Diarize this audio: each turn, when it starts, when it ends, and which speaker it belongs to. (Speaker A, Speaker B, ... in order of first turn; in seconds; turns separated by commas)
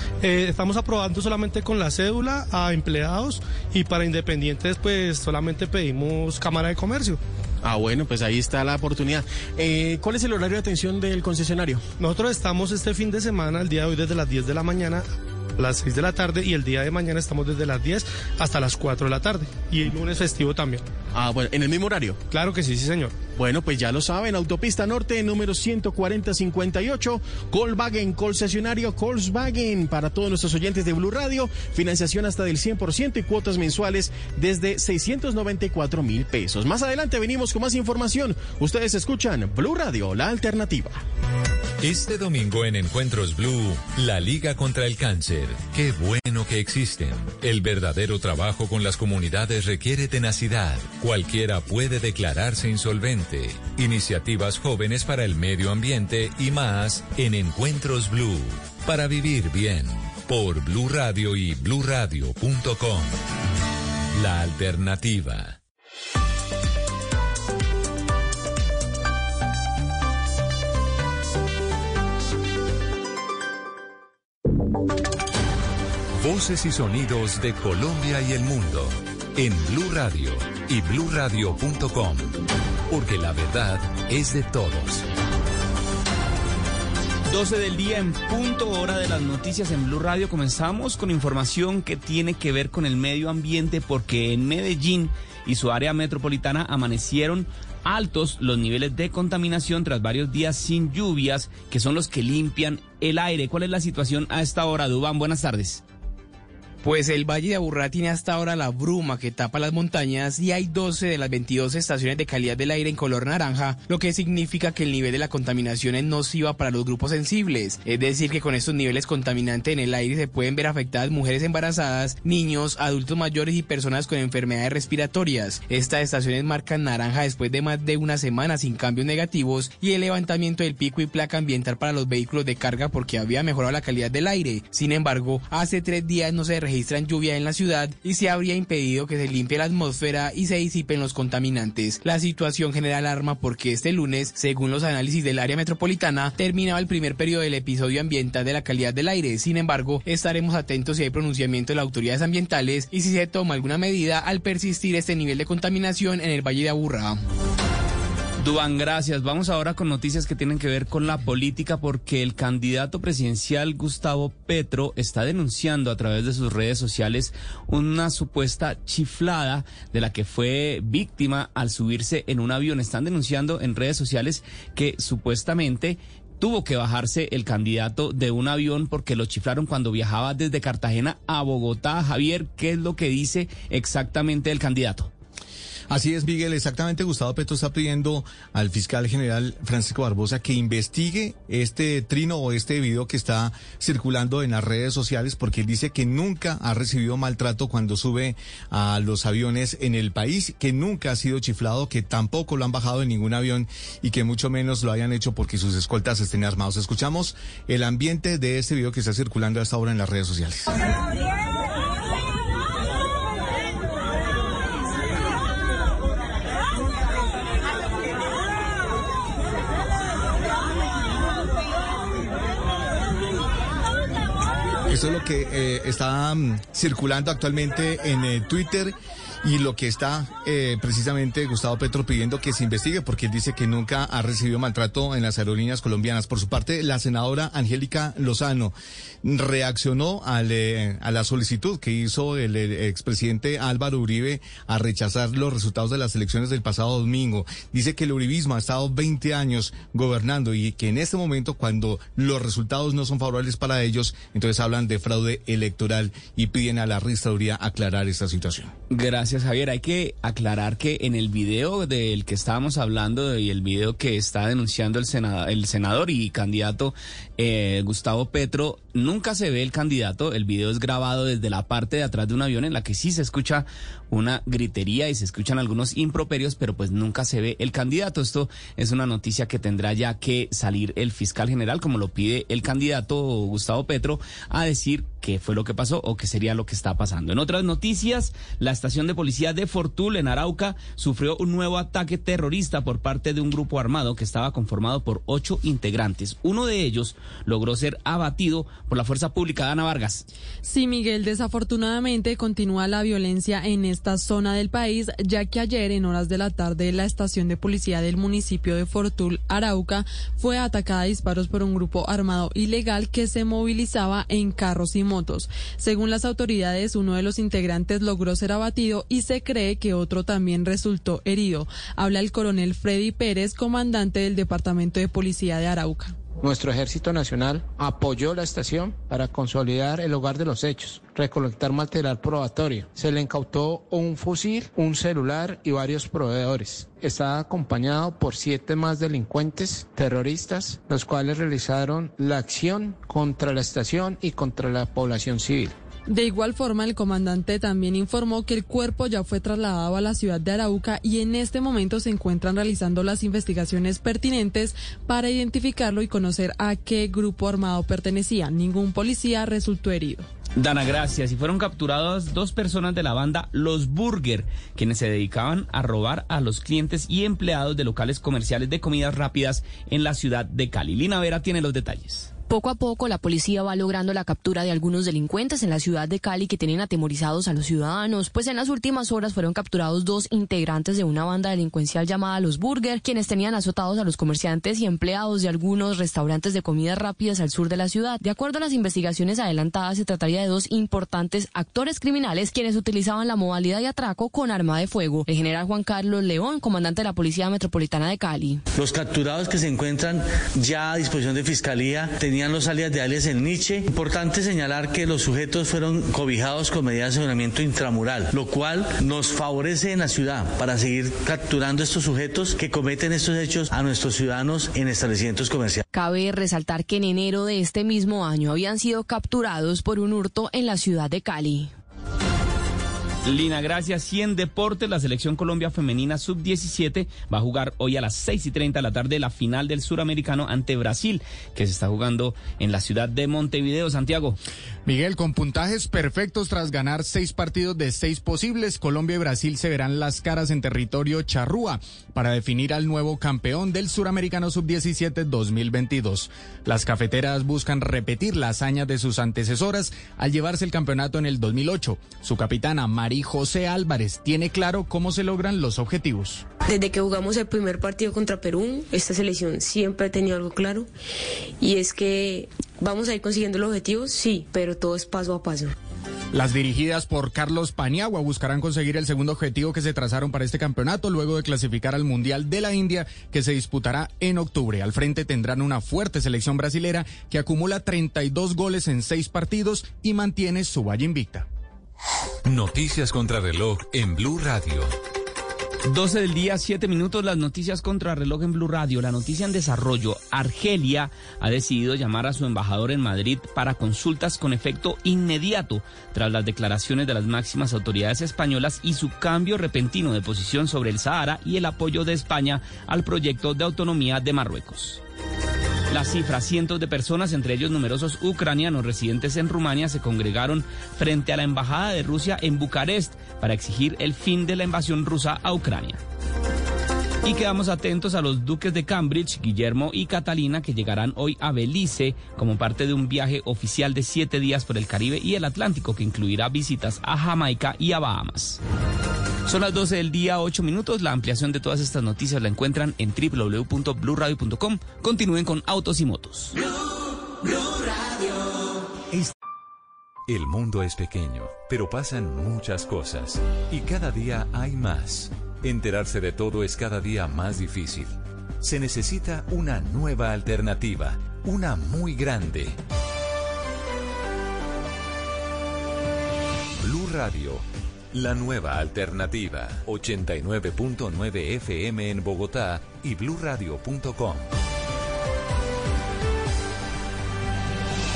Speaker A: 0.2-7.2, Speaker B: 7.6-11.8, Speaker A: 12.0-15.1, Speaker A: 15.6-20.8, Speaker B: 21.1-22.2, Speaker A: 22.3-23.2, Speaker B: 23.4-41.0, Speaker C: 41.8-63.2, Speaker C: 64.1-65.6, Speaker C: 76.2-82.4, Speaker C: 82.9-85.0, Speaker D: 87.3-105.8, Speaker E: 106.8-157.2, Speaker D: 158.4-185.1, Speaker F: 185.9-210.7, Speaker F: 224.9-258.7, Speaker D: 258.9-300.2, Speaker G: 300.6-326.1, Speaker H: 326.4-345.7, Speaker G: 346.1-360.2, Speaker D: 360.6-372.3, Speaker I: 372.5-398.6, Speaker J: 398.7-415.8, Speaker I: 415.9-421.7, Speaker D: 423.2-434.4, Speaker K: 434.9-456.4, Speaker L: 456.7-460.9, Speaker L: 461.6-465.7, Speaker K: 466.3-481.5, Speaker C: 482.4-484.9, Speaker D: 485.9-505.0, Speaker D: 505.9-516.0, Speaker D: 517.2-528.6, Speaker D: 529.5-536.5, Speaker C: 540.3-552.8, Speaker C: 556.8-564.5